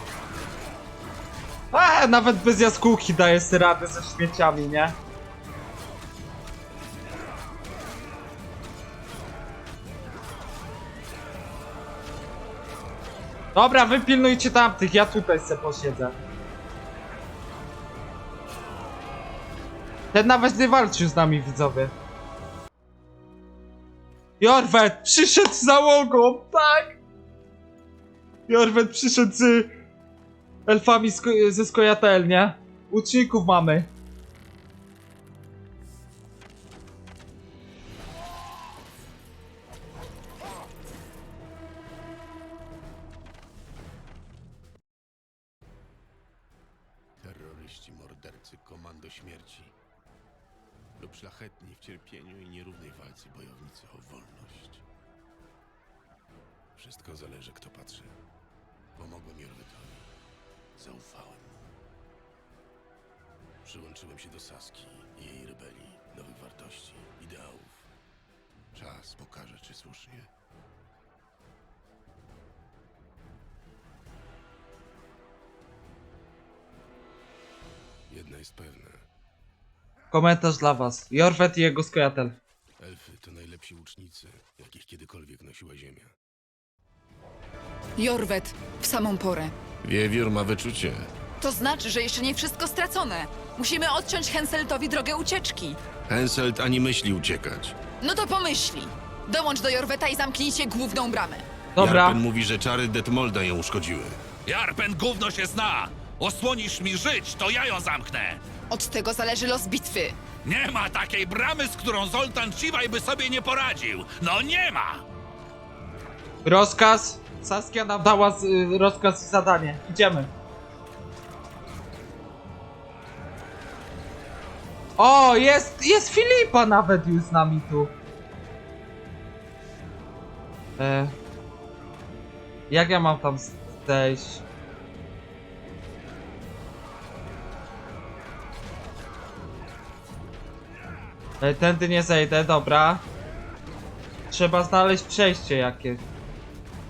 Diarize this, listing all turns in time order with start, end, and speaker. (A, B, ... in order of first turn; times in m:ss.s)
0:01.7-0:05.0 A
0:13.5-0:16.2 A
0:20.1-0:21.9 A
0:24.4-0:27.0 A
0:28.5-0:29.7 A
0:30.7-0:33.9 A
0:47.2-0:49.7 B
0:51.0-0:54.8 B
0:56.8-0:58.1 B
0:59.0-1:00.1 B
1:00.8-1:01.7 B
1:03.6-1:07.9 B
1:08.7-1:10.3 B
1:18.1-1:19.0 B
1:20.1-1:22.4 A
1:22.8-1:26.1 B
1:28.0-1:29.5 C
1:29.8-1:31.1 B
1:31.4-1:35.8 C
1:36.0-1:37.7 B
1:38.0-1:41.4 C
1:41.8-1:42.2 A
1:41.8-1:44.2 B
1:44.4-1:48.4 D
1:48.7-1:50.2 C
1:50.4-1:55.0 D
1:56.4-2:00.3 A
2:05.0-2:07.9 A
2:10.8-2:11.1 A
2:12.7-2:14.4 A
2:21.4-2:23.0 A
2:24.3-2:26.0 A